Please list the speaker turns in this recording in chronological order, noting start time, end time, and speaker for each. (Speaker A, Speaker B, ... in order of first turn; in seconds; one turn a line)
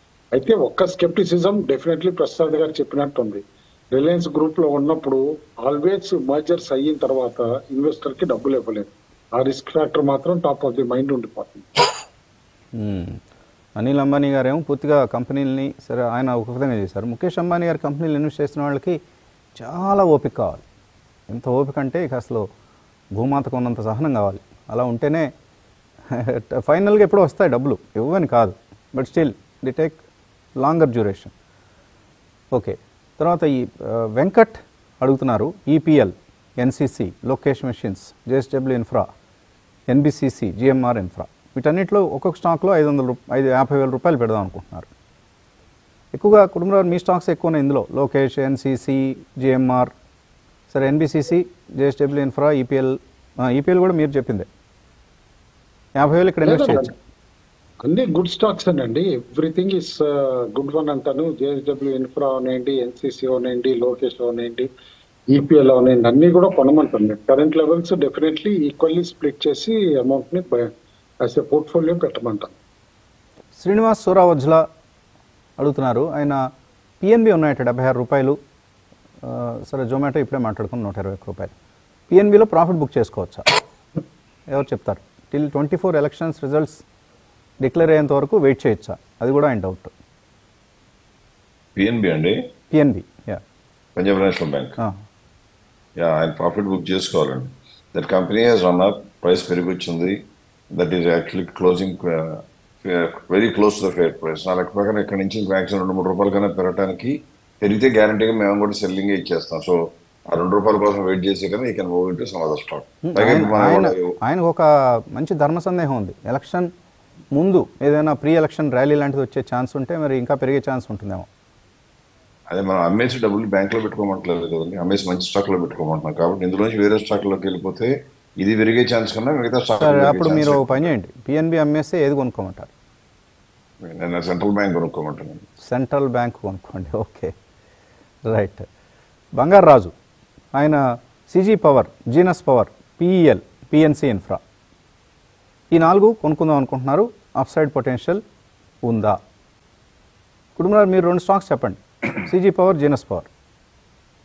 Speaker A: 0.3-11.8
Speaker B: 12.8-13.2
Speaker B: 13.8-19.0
Speaker B: 19.6-20.6
Speaker B: 21.3-22.5
Speaker B: 23.1-25.3
Speaker B: 26.1-30.0
Speaker B: 30.6-31.3
Speaker B: 32.5-39.1
Speaker B: 39.9-44.9
Speaker B: 46.1-49.9
Speaker B: 50.7-54.5
Speaker B: 56.0-56.9
Speaker A: 56.4-56.9
Speaker A: 57.8-64.7
Speaker A: 65.3-70.7
Speaker A: 71.2-72.5
Speaker B: 73.6-74.6
Speaker B: 75.6-76.4
Speaker B: 77.0-78.4
Speaker B: 79.2-81.5
Speaker B: 82.1-83.5
Speaker B: 84.5-86.8
Speaker B: 87.6-89.9
Speaker C: 91.8-92.4
Speaker B: 92.7-93.4
Speaker C: 94.0-94.8
Speaker C: 96.0-100.2
Speaker C: 100.7-114.2
Speaker B: 113.0-116.7
Speaker B: 117.3-121.3
Speaker C: 122.5-130.9
Speaker B: 129.8-132.7
Speaker C: 133.8-135.4
Speaker B: 135.6-137.3
Speaker B: 138.3-138.7
Speaker B: 139.3-139.9
Speaker B: 140.5-144.4
Speaker B: 145.7-148.2
Speaker B: 148.8-149.2
Speaker B: 150.6-153.3